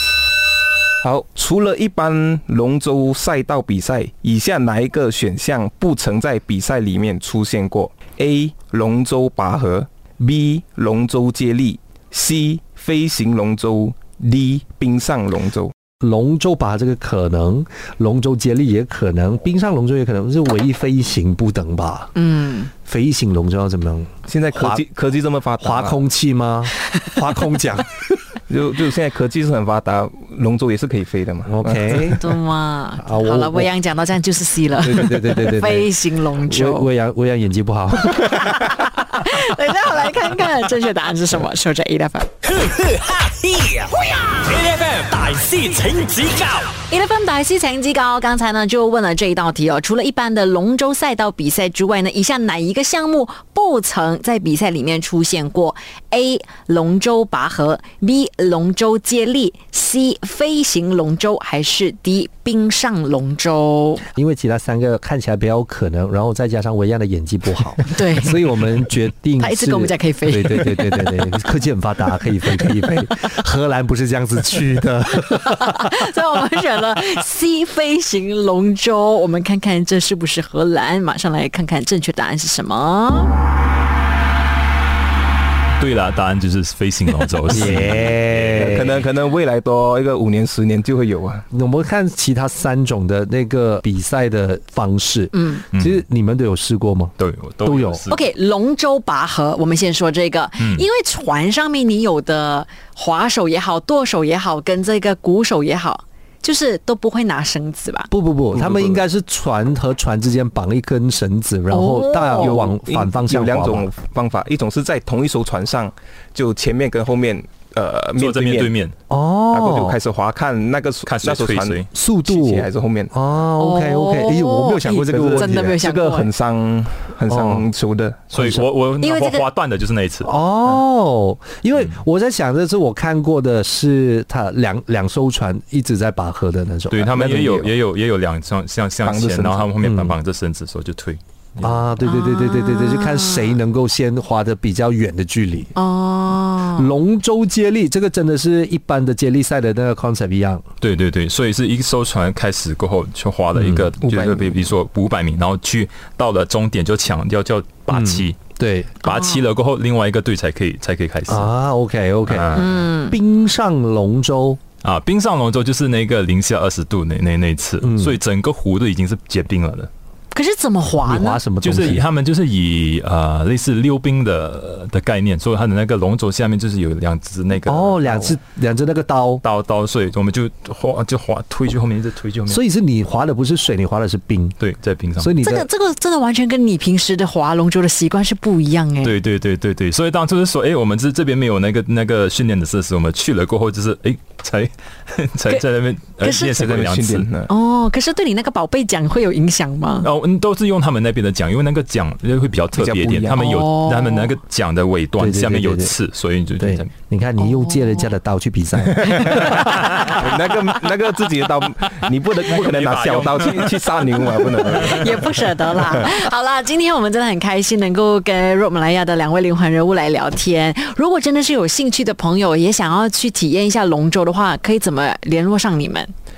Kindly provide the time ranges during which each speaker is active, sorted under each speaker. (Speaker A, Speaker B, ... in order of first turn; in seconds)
Speaker A: 1.0-15.7, 24.3-26.0, 28.5-32.2, 88.5-91.5, 108.5-109.0, 112.4-118.8, 119.5-123.1, 124.8-128.3, 137.1-137.8, 139.0-139.7, 154.0-154.7, 196.6-197.5, 202.7-203.5, 208.9-215.5
Speaker B: 16.0-22.1, 22.8-24.8, 25.6-27.9, 31.5-32.2, 33.0-33.7, 34.8-38.3, 64.2-76.0, 87.5-88.9, 91.5-98.1, 108.1-113.9, 119.1-120.0, 121.9-125.8, 127.3-127.7, 128.3-128.7, 130.2-137.2, 139.8-140.2, 141.6-145.7, 146.8-150.6, 153.5-153.9, 157.9-159.0, 161.3-164.6, 167.8-168.2, 171.0-172.1, 177.7-179.4, 182.5-184.6, 185.2-185.7, 205.2-206.0, 206.5-210.1
Speaker C: 22.1-22.7, 31.9-36.9, 38.1-42.3, 46.9-64.0, 67.9-68.5, 69.4-71.3, 75.3-83.3, 95.3-95.7, 98.1-108.1, 111.7-112.6, 123.6-126.3, 129.0-129.5, 142.0-143.6, 145.8-146.9, 159.0-159.4, 162.5-163.2, 170.3-171.4, 185.4-189.2, 196.2-196.5, 197.5-200.1, 203.3-204.3, 207.4-208.1, 214.6-226.1
Speaker D: 42.5-46.8
Speaker E: 85.8-89.1, 95.7-96.0, 97.2-98.3, 100.6-100.9, 118.2-118.9, 121.0-121.9, 128.3-130.3, 136.9-141.9, 150.8-158.4, 159.0-161.5, 162.3-162.8, 164.8-169.9, 171.6-178.4, 179.4-182.6, 184.6-185.3, 189.0-197.3, 200.0-206.9, 212.4-215.2